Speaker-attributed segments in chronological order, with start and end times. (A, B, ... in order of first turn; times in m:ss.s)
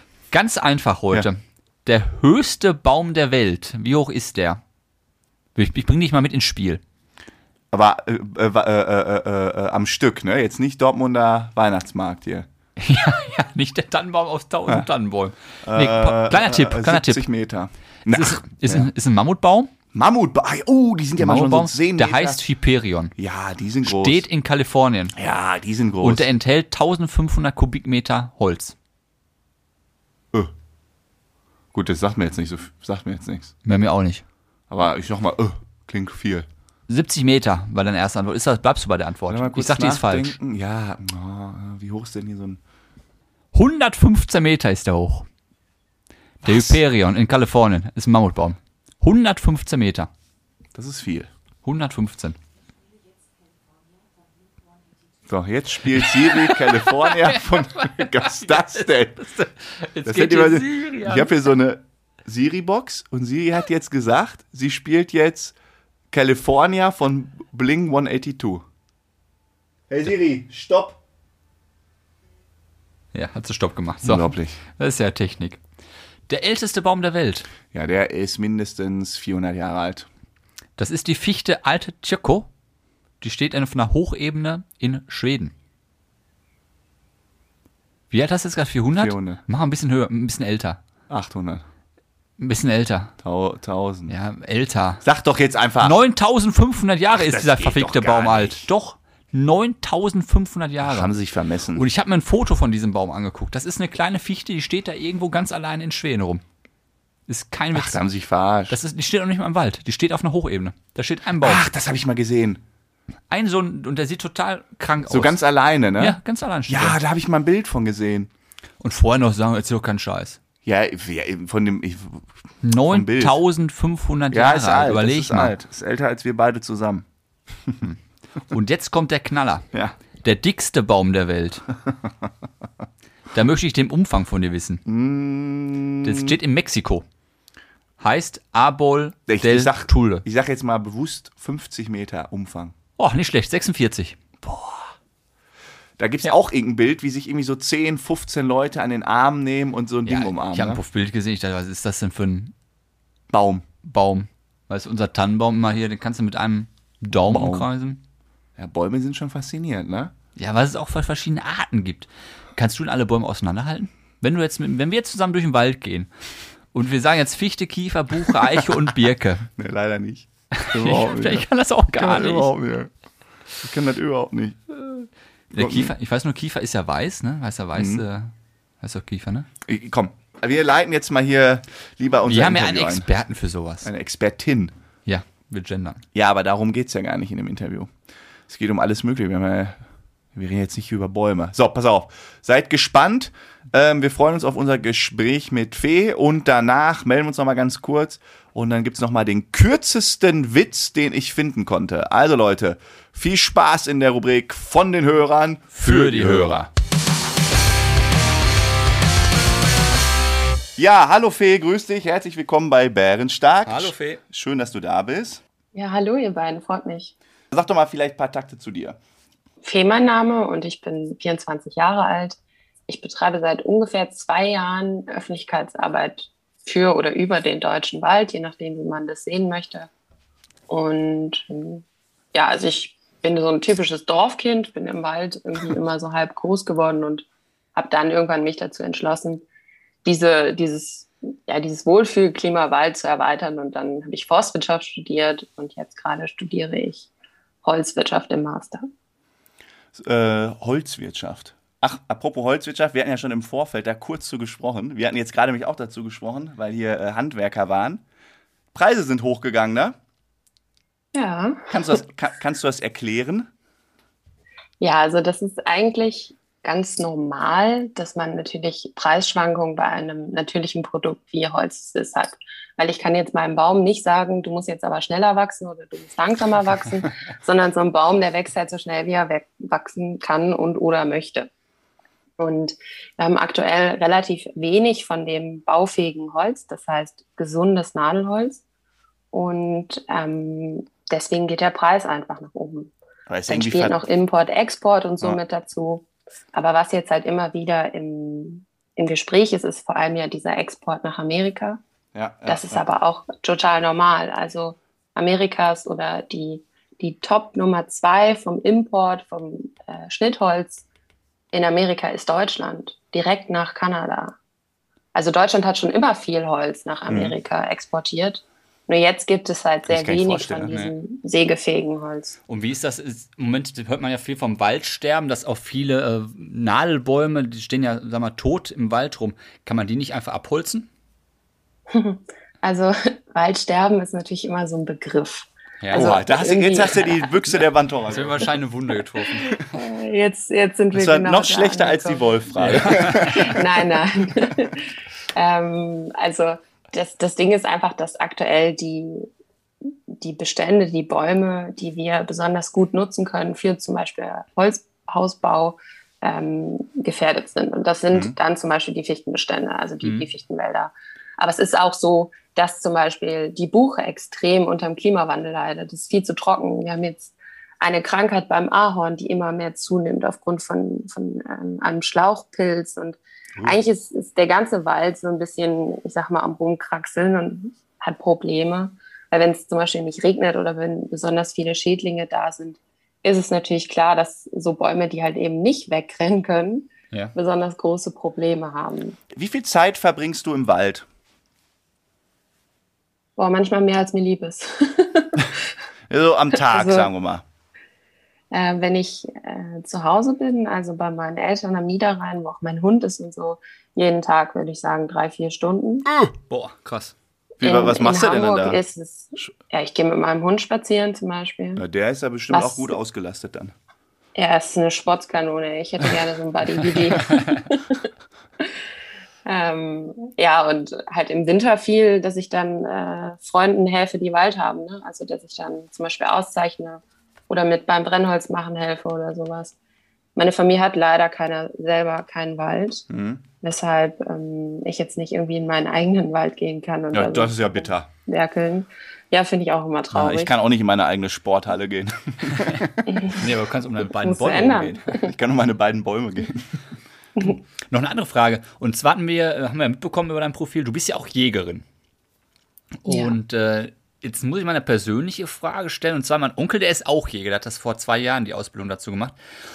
0:00.3-0:04.6 A
0:05.6-0:06.8 A
0:07.7-0:12.5 B
0:12.8-0:17.3 A
0:15.6-0:18.9 B
0:18.1-0:19.7 A
0:19.9-0:22.4 B
0:21.2-0:23.1 A
0:23.2-0:24.2 B
0:23.8-0:25.2 A
0:25.2-0:26.3 B
0:26.0-0:28.8 A
0:31.7-0:33.6 B
0:33.6-0:34.2 A
0:34.7-0:36.5 B
0:36.9-0:40.4 A
0:39.3-0:42.6 B
0:43.5-0:45.3 A
0:46.4-0:46.8 B
0:46.4-0:50.1 A
0:50.8-0:51.3 B
0:51.6-0:52.4 A
0:55.3-0:59.2 B
0:56.0-1:01.3 A
1:00.0-1:05.5 B
1:06.1-1:08.6 B
1:09.9-1:11.0 B
1:13.1-1:15.6 A
1:14.0-1:14.6 B
1:16.3-1:17.5 A
1:17.7-1:20.1 B
1:20.8-1:22.5 A
1:23.2-1:25.5 A
1:28.1-1:30.8 A
1:28.9-1:29.4 B
1:31.1-1:31.6 B
1:32.4-1:33.1 A
1:33.2-1:34.2 B
1:34.1-1:35.0 A
1:35.0-1:36.0 B
1:35.8-1:41.1 A
1:37.1-1:38.7 B
1:40.8-1:41.8 B
1:41.7-1:46.4 A
1:47.3-1:48.0 A
1:47.7-1:48.8 B
1:48.7-1:51.7 A
1:51.4-1:52.6 B
1:53.3-1:55.4 A
1:55.1-1:56.2 B
1:56.0-1:57.0 A
1:56.7-1:58.3 B
1:58.8-2:00.4 A
2:00.6-2:02.3 B
2:02.6-2:05.5 A
2:02.9-2:03.4 B
2:04.3-2:07.1 B
2:07.6-2:07.9 B
2:08.5-2:11.6 A
2:11.8-2:12.1 B
2:13.3-2:14.8 A
2:14.9-2:16.4 B
2:16.0-2:17.1 A
2:18.0-2:20.2 A
2:19.3-2:22.7 B
2:23.0-2:24.2 A
2:24.4-2:24.9 B
2:26.0-2:30.8 B
2:30.1-2:32.5 A
2:33.3-2:33.7 B
2:33.8-2:38.0 A
2:37.2-2:37.7 B
2:38.6-2:40.1 B
2:40.4-2:46.1 A
2:46.7-2:49.5 A
2:49.6-2:52.9 B
2:50.5-2:52.5 A
2:53.6-2:54.6 B
2:54.8-2:59.5 A
2:55.5-2:55.9 B
2:57.8-2:58.0 B
2:59.6-3:03.1 B
3:02.3-3:03.9 A
3:03.8-3:04.7 B
3:05.0-3:06.0 A
3:06.1-3:07.9 B
3:08.5-3:09.8 B
3:10.3-3:26.6 B
3:25.7-3:26.7 A
3:30.8-3:35.4 B
3:33.7-3:34.2 A
3:35.7-3:37.1 C
3:37.5-3:39.0 B
3:39.6-3:42.4 C
3:42.9-3:49.9 C
3:50.7-3:59.4 C
4:00.0-4:07.1 C
4:07.6-4:08.8 C
4:09.9-4:18.0 B
4:18.7-4:20.0 B
4:21.1-4:22.0 C
4:21.7-4:23.5 B
4:24.8-4:41.5 C
4:42.4-4:48.6 C
4:49.3-4:52.9 C
4:53.3-4:54.0 B
4:53.5-5:01.8 C
5:02.1-5:02.9 B
5:02.5-5:10.8 C
5:11.5-5:14.4 C
5:15.1-5:22.4 C
5:17.1-5:17.4 B
5:19.9-5:20.9 B
5:22.5-5:30.9 A
5:31.9-5:37.3 C
5:35.8-5:36.2 A
5:35.9-5:38.5 B
5:38.1-5:39.8 A
5:39.3-5:42.3 C
5:40.9-5:44.0 B
5:42.6-5:43.5 A
5:42.8-5:49.3 C
5:50.1-6:29.2 C
6:00.0-6:00.3 A
6:13.6-6:13.8 B
6:29.3-6:31.1 B
6:33.4-6:35.5 C
6:36.1-6:37.4 B
6:36.5-6:37.1 C
6:38.5-6:46.1 C
6:46.1-6:46.3 B
6:46.5-6:47.2 A
6:47.6-6:48.8 B
6:47.6-6:51.8 C
6:51.8-6:53.7 B
6:52.5-6:53.0 C
6:54.4-6:58.1 C
6:57.3-6:57.6 A
6:59.5-7:09.8 C
7:10.4-7:13.0 C
7:13.1-7:13.4 B
7:13.6-7:20.5 C
7:17.1-7:18.1 B
7:20.1-7:23.3 B
7:22.6-7:25.0 A
7:23.1-7:23.4 C
7:24.2-7:25.3 C
7:25.1-7:26.8 B
7:27.8-7:31.9 A
7:33.0-7:39.4 A
7:33.1-7:33.4 C